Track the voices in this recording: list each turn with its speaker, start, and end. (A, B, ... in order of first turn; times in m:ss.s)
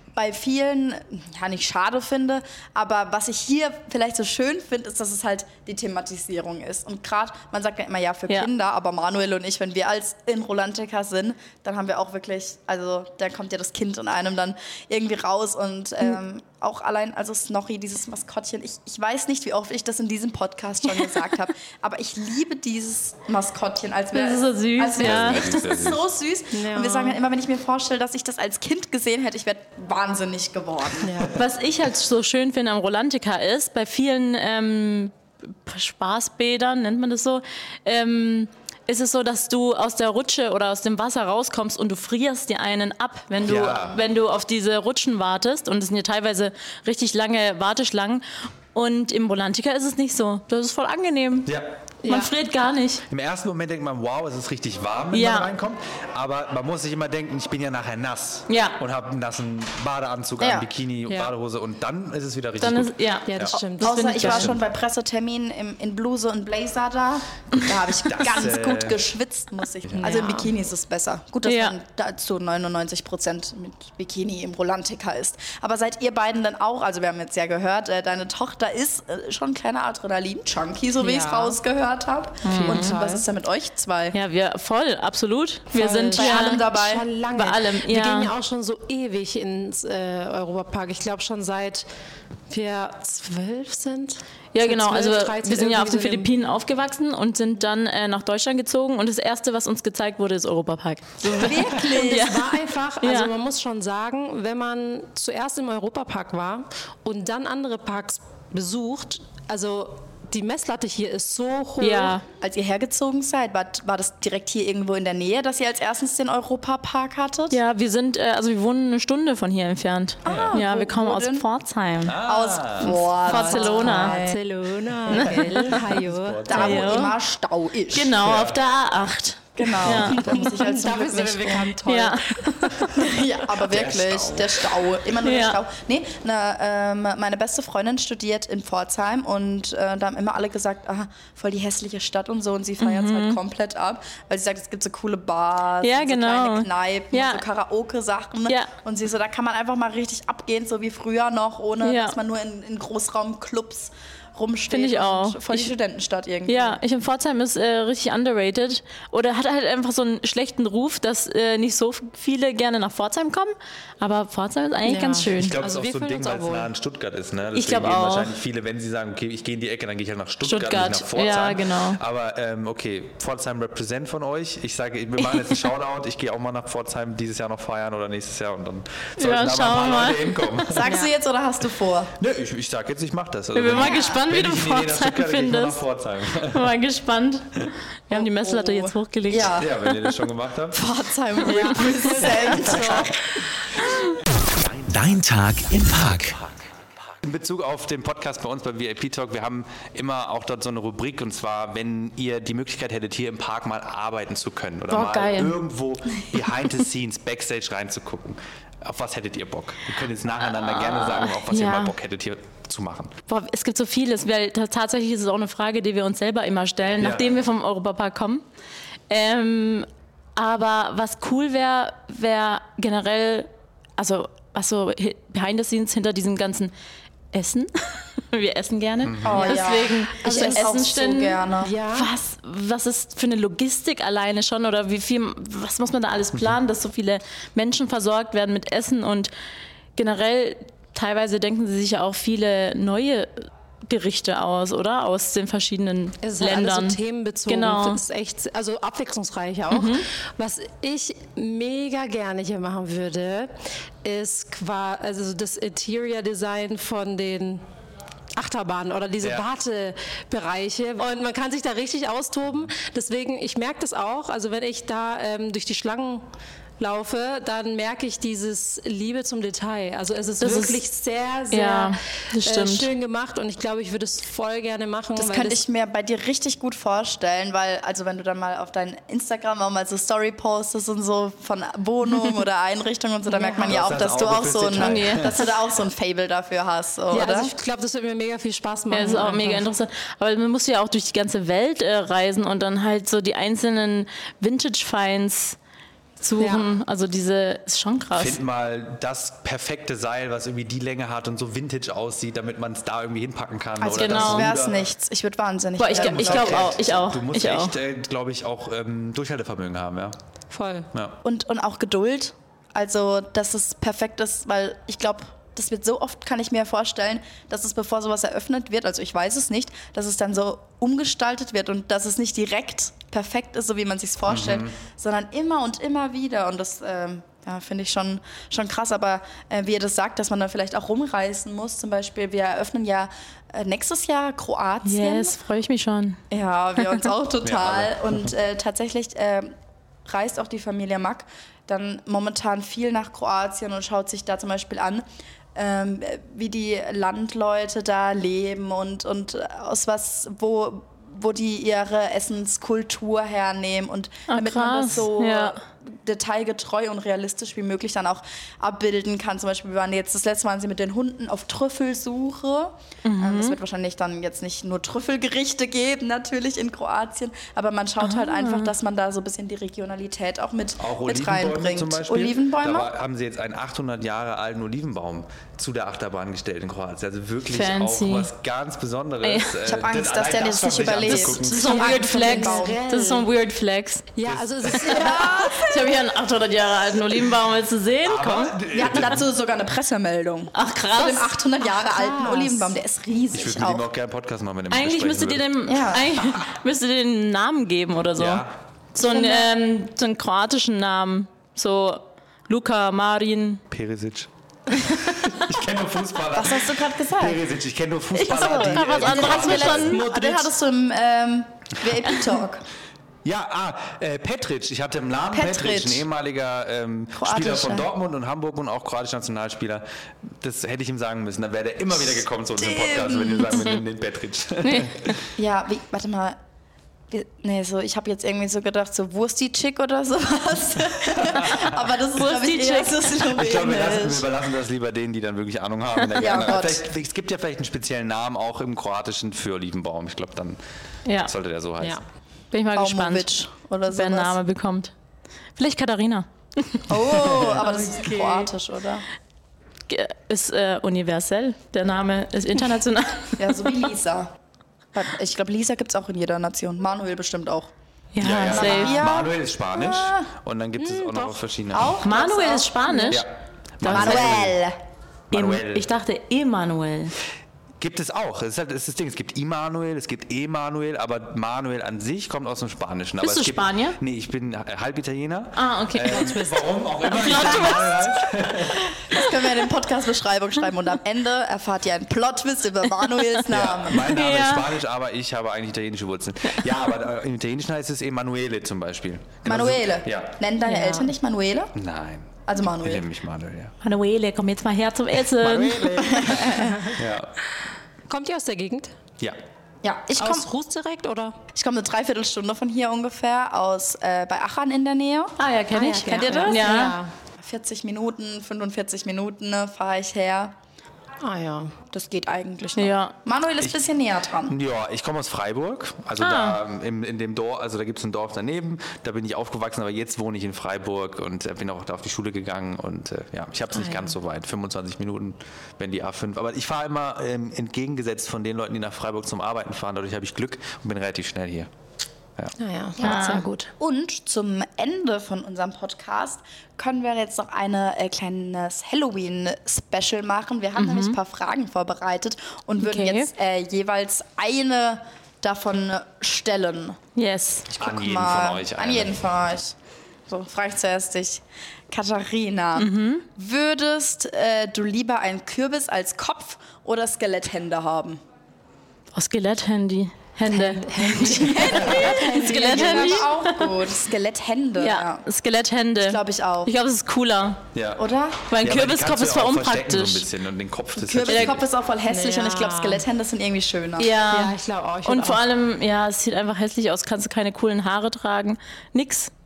0:00.1-0:31.2 A
0:24.1-0:25.6 B
0:25.0-0:26.0 C
0:26.5-0:27.2 D
0:31.0-0:31.3 D
0:31.3-0:51.5 B
0:43.4-0:44.0 C
0:52.0-0:52.3 D
0:52.0-0:53.0 B
0:53.1-1:03.6 C
0:55.1-0:55.5 B
0:58.5-0:58.8 B
1:00.4-1:00.6 A
1:01.1-1:01.3 D
1:02.6-1:04.6 B
1:03.3-1:04.5 D
1:03.8-1:24.2 A
1:08.0-1:09.0 C
1:09.8-1:10.2 C
1:10.0-1:10.5 D
1:11.4-1:11.8 B
1:21.0-1:21.6 D
1:22.4-1:23.0 B
1:22.4-1:23.3 D
1:24.1-1:26.6 B
1:25.7-1:31.8 D
1:26.1-1:27.0 A
1:27.3-1:28.3 B
1:32.5-1:36.3 D
1:34.5-1:43.3 B
1:41.3-1:42.3 A
1:41.4-1:52.2 D
1:51.8-1:52.2 B
1:52.4-1:57.6 A
1:57.5-2:02.2 B
2:00.2-2:01.4 A
2:00.2-2:00.6 C
2:02.0-2:03.0 C
2:02.2-2:04.4 A
2:02.8-2:04.2 B
2:03.1-2:07.0 D
2:05.1-2:05.7 B
2:05.2-2:07.0 C
2:06.5-2:08.2 A
2:06.5-2:07.1 B
2:07.9-2:10.4 B
2:08.2-2:08.6 C
2:09.6-2:11.7 A
2:09.8-2:13.0 D
2:11.8-2:12.8 B
2:12.9-2:36.8 A
2:13.5-2:14.7 C
2:15.2-2:15.6 B
2:22.8-2:23.4 B
2:25.8-2:27.4 B
2:31.8-2:32.2 B
2:34.7-2:35.7 B
2:36.5-2:45.6 B
2:44.8-2:46.7 D
2:45.4-3:00.9 C
2:47.5-2:48.3 B
2:50.4-2:52.0 B
2:59.2-3:00.6 B
3:00.7-3:02.1 A
3:02.2-3:06.7 C
3:03.5-3:05.8 B
3:03.7-3:04.2 A
3:06.5-3:07.5 B
3:08.1-3:09.6 B
3:08.1-3:10.0 A
3:09.5-3:10.8 C
3:10.7-3:13.2 A
3:11.4-3:13.1 D
3:12.6-3:13.1 C
3:14.5-3:16.6 E
3:17.2-3:33.1 C
3:24.9-3:25.5 B
3:30.6-3:31.9 B
3:33.3-3:38.4 B
3:37.0-3:37.3 C
3:39.1-3:46.7 B
3:47.3-3:59.3 B
3:49.0-3:49.5 C
3:49.2-3:51.7 A
3:49.3-3:50.7 D
3:51.6-3:52.1 D
4:00.0-4:08.0 B
4:06.2-4:13.5 D
4:09.7-4:10.1 B
4:14.0-4:17.6 D
4:18.4-4:26.2 D
4:26.8-4:35.6 D
4:30.4-4:30.8 B
4:31.5-4:32.9 B
4:35.2-4:47.5 A
4:43.3-4:43.8 D
4:43.6-4:45.6 C
4:44.8-4:45.5 B
4:47.1-4:49.7 D
4:48.9-4:55.6 B
4:56.2-4:58.4 B
4:56.4-4:56.6 D
4:58.1-5:04.8 C
5:03.8-5:06.7 A
5:03.9-5:04.5 B
5:05.8-5:07.8 B
5:05.9-5:10.2 C
5:10.5-5:10.9 D
5:11.2-5:35.4 A
5:24.3-5:24.8 C
5:34.8-5:36.2 B
5:36.3-5:39.5 A
5:37.4-5:38.3 C
5:40.0-6:12.9 A
5:54.3-5:55.6 B
6:03.0-6:03.6 B
6:08.0-6:08.7 B
6:10.8-6:21.8 C
6:17.5-6:18.3 B
6:19.2-6:19.5 B
6:19.6-6:22.8 A
6:21.0-6:24.0 B
6:21.5-6:23.3 D
6:24.2-6:25.6 D
6:24.2-6:25.0 C
6:24.8-6:29.0 B
6:24.8-6:25.9 A
6:28.0-6:29.3 C
6:28.7-6:33.8 A
6:30.5-6:31.3 B
6:31.6-6:32.7 D
6:33.3-6:35.5 C
6:34.7-6:43.6 B
6:35.6-6:36.2 A
6:38.2-6:38.5 C
6:39.0-6:39.5 A
6:43.7-6:44.3 C
6:44.8-6:45.4 B
6:44.8-6:50.0 C
6:46.3-6:47.4 A
6:48.1-6:50.4 B
6:48.2-6:52.6 A
6:50.0-6:50.5 D
6:53.2-7:05.3 C
6:55.3-6:56.0 A
6:57.2-6:57.9 A
7:02.6-7:03.7 A
7:04.6-7:05.1 B
7:05.4-7:06.4 A
7:07.1-7:14.2 A
7:11.1-7:11.9 C
7:12.1-7:13.2 B
7:13.2-7:20.6 C
7:16.2-7:16.8 A
7:21.0-7:21.3 B
7:21.2-7:22.0 C
7:22.5-7:23.4 B
7:22.7-7:24.4 A
7:23.9-7:24.9 B
7:25.6-7:28.5 B
7:26.9-7:29.0 A
7:29.9-7:33.7 B
7:33.4-7:34.3 A
7:34.9-7:37.7 A
7:38.1-7:39.0 B
7:38.2-7:42.0 C
7:38.3-7:40.3 A
7:40.8-7:41.4 D
7:41.7-7:43.2 A
7:42.0-7:43.2 B
7:43.1-7:44.6 C
7:43.8-7:44.5 B
7:43.8-7:44.8 A
7:45.3-7:45.9 C
7:45.3-7:47.1 B
7:47.8-7:58.8 C
7:53.2-7:54.0 B
7:55.6-7:56.4 B
7:56.1-7:57.8 D
7:57.1-7:58.2 B
7:59.1-8:04.1 A
8:03.5-8:10.4 C
8:04.0-8:04.7 B
8:09.4-8:11.7 A
8:10.6-8:11.1 D
8:11.7-8:13.7 C
8:12.4-8:13.0 A
8:13.8-8:16.3 B
8:15.4-8:17.3 C
8:16.0-8:16.9 A
8:16.6-8:17.0 D
8:18.1-8:18.9 D
8:19.8-8:20.5 A
8:20.2-8:21.4 D
8:21.5-8:26.8 A
8:25.4-8:27.0 B
8:25.7-8:27.1 D
8:27.3-8:30.5 A
8:31.2-8:31.7 D
8:31.9-8:34.5 A
8:32.8-8:33.1 B
8:34.4-8:51.7 C
8:36.2-8:36.6 B
8:43.7-8:44.2 D
8:52.6-8:53.7 D
8:53.0-8:53.5 B
8:53.0-9:07.0 A
9:00.8-9:01.2 B
9:02.8-9:03.3 B
9:07.2-9:07.7 B
9:07.7-9:09.2 C
9:07.7-9:09.7 A
9:10.3-9:18.2 A
9:12.8-9:13.2 B
9:19.1-9:23.7 B
9:20.5-9:23.3 D
9:21.1-9:25.2 A
9:24.8-9:27.6 B
9:26.0-9:26.7 A
9:27.7-9:31.7 C
9:28.0-9:28.4 A
9:28.5-9:30.3 B
9:31.0-9:34.1 A
9:31.3-9:31.6 B
9:32.1-9:33.0 D
9:34.0-9:34.5 B
9:34.3-9:35.4 D
9:35.0-9:39.3 B